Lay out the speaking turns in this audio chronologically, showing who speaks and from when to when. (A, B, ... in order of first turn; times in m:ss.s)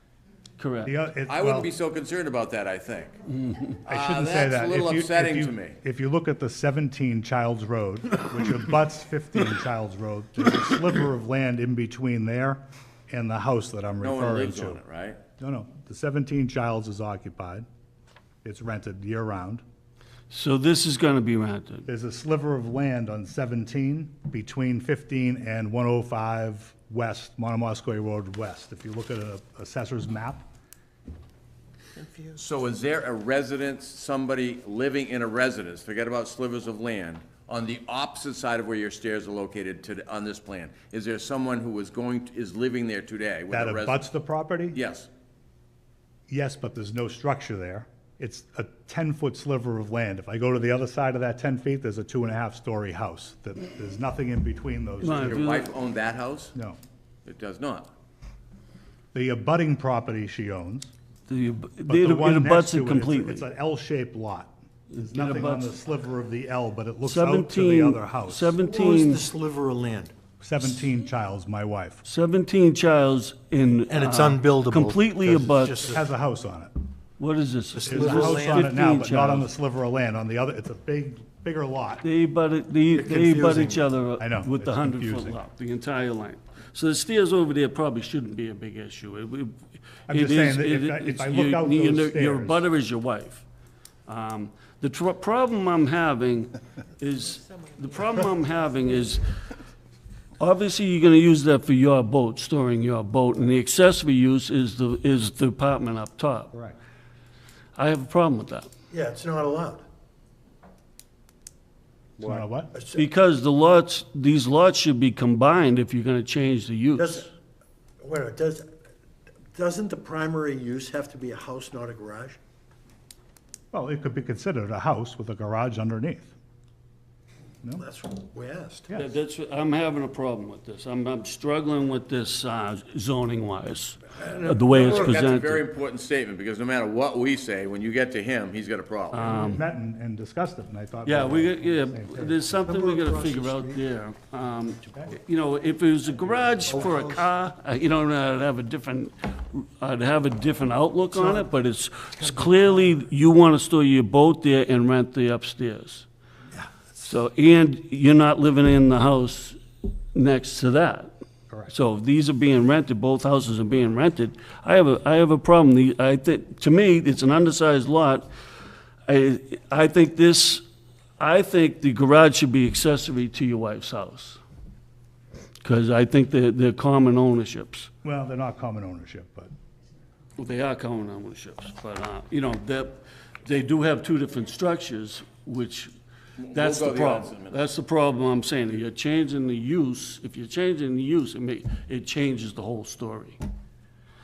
0:00.6-0:00.9 A
0:00.8-0:01.7 B
0:01.3-0:03.2 C
0:03.8-0:05.8 C
0:03.9-0:14.8 B
0:14.0-0:15.2 C
0:15.4-0:17.7 B
0:18.4-0:19.6 B
0:20.3-0:21.9 A
0:21.9-0:30.4 B
0:32.4-0:44.1 C
0:43.5-0:44.8 B
0:44.7-0:45.1 C
0:46.3-0:55.5 B
0:55.0-0:55.7 A
0:55.2-0:56.5 C
0:56.5-0:56.8 B
0:57.3-0:57.9 C
0:59.1-1:00.9 B
1:01.3-1:03.4 A
1:01.9-1:08.6 B
1:04.9-1:05.8 A
1:07.0-1:09.3 A
1:08.6-1:10.1 D
1:10.4-1:12.0 B
1:12.0-1:16.0 A
1:13.9-1:16.0 D
1:15.8-1:16.7 B
1:17.2-1:19.5 A
1:17.8-1:18.7 D
1:17.8-1:22.0 B
1:22.0-1:33.4 A
1:23.0-1:23.9 D
1:24.2-1:25.4 B
1:30.1-1:32.6 B
1:34.1-1:39.2 A
1:40.4-1:46.5 A
1:46.5-1:46.8 B
1:47.8-1:48.7 A
1:48.9-1:49.8 D
1:52.2-1:53.0 D
1:52.2-1:52.7 B
1:52.9-1:57.3 A
1:57.0-1:57.3 D
1:58.0-1:58.7 D
1:59.5-2:02.4 D
2:03.7-2:06.3 B
2:07.8-2:08.9 D
2:09.0-2:15.6 A
2:14.2-2:14.9 D
2:14.7-2:19.3 C
2:19.1-2:19.6 A
2:19.2-2:22.6 B
2:21.0-2:36.1 A
2:22.5-2:23.8 D
2:24.8-2:25.2 B
2:26.7-2:27.3 D
2:31.2-2:31.5 D
2:32.2-2:32.7 D
2:37.0-2:39.6 A
2:40.1-2:41.1 A
2:41.7-2:48.3 A
2:49.1-2:50.6 A
2:51.2-2:54.4 A
2:55.6-2:57.9 A
2:58.0-2:59.5 B
3:00.4-3:05.9 A
3:06.4-3:07.6 C
3:06.5-3:13.4 A